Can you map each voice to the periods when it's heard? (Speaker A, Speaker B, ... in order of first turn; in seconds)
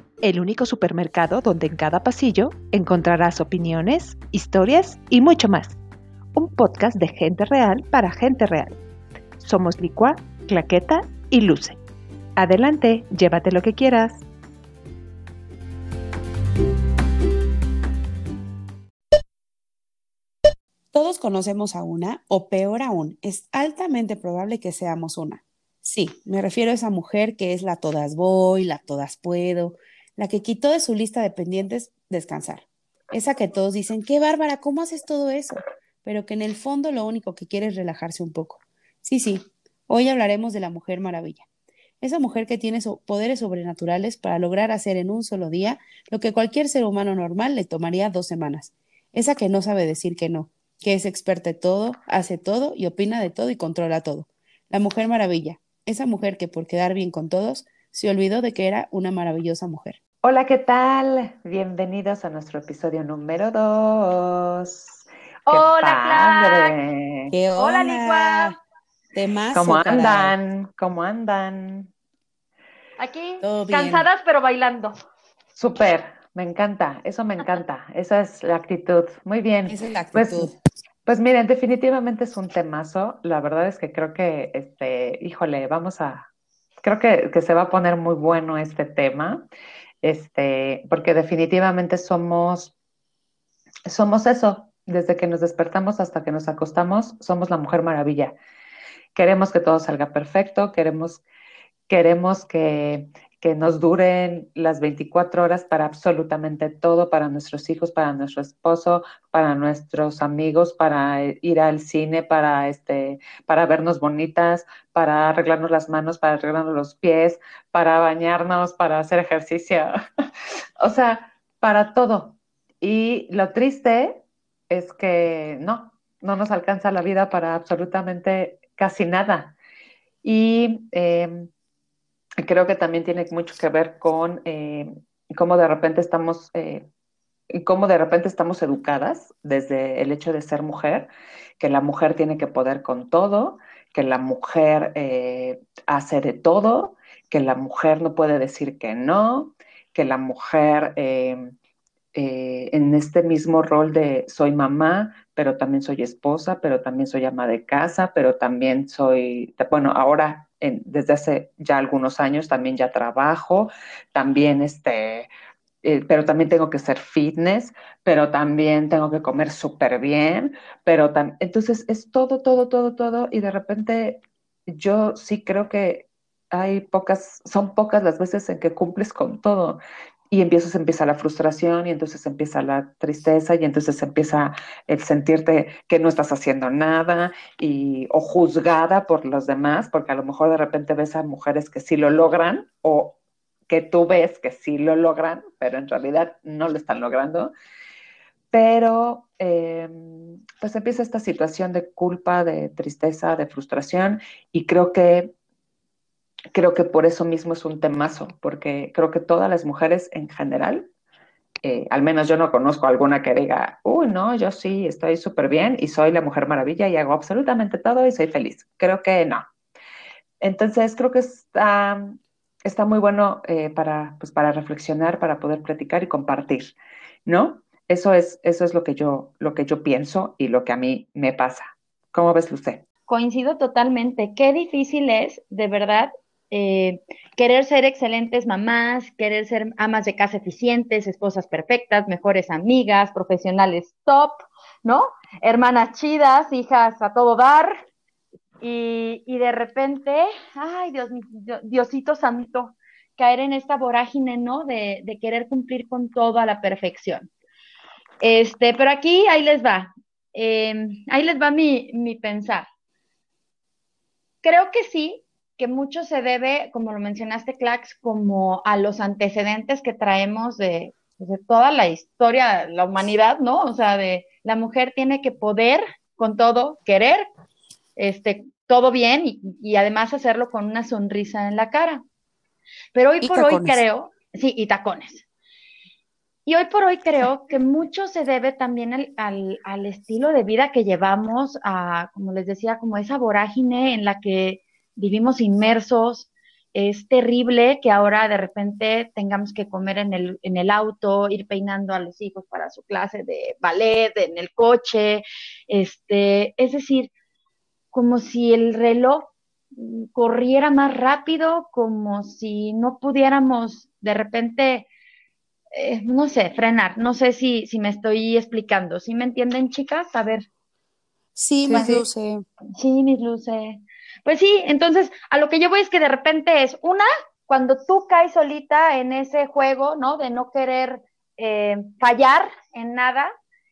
Speaker A: 0.2-5.8, 6.3-8.8, 9.4-11.8, 12.4-14.2
Speaker B: 20.9-41.5, 42.0-60.0, 67.3-68.6, 69.1-70.3, 73.4-74.0, 79.7-80.5, 283.2-283.8, 321.3-322.4
Speaker C: 60.2-67.3, 69.5-71.9, 75.6-80.5, 81.0-86.3, 86.8-89.5, 90.0-92.7, 93.9-98.3, 99.1-101.2, 101.9-119.9, 120.8-129.6, 130.2-131.5, 132.4-136.8, 137.5-151.5, 152.1-165.3, 165.8-179.8, 180.3-197.5, 198.5-205.3, 206.5-210.9, 211.6-219.5, 220.4-226.7, 227.2-232.8, 321.6-322.1
Speaker D: 65.5-66.8, 67.6-68.6, 73.0-74.9, 233.1-247.8, 248.6-257.3, 258.2-262.7, 264.4-277.3, 278.0-282.0, 282.9-285.2, 286.4-307.1, 307.9-314.9, 315.7-320.4, 322.8-333.3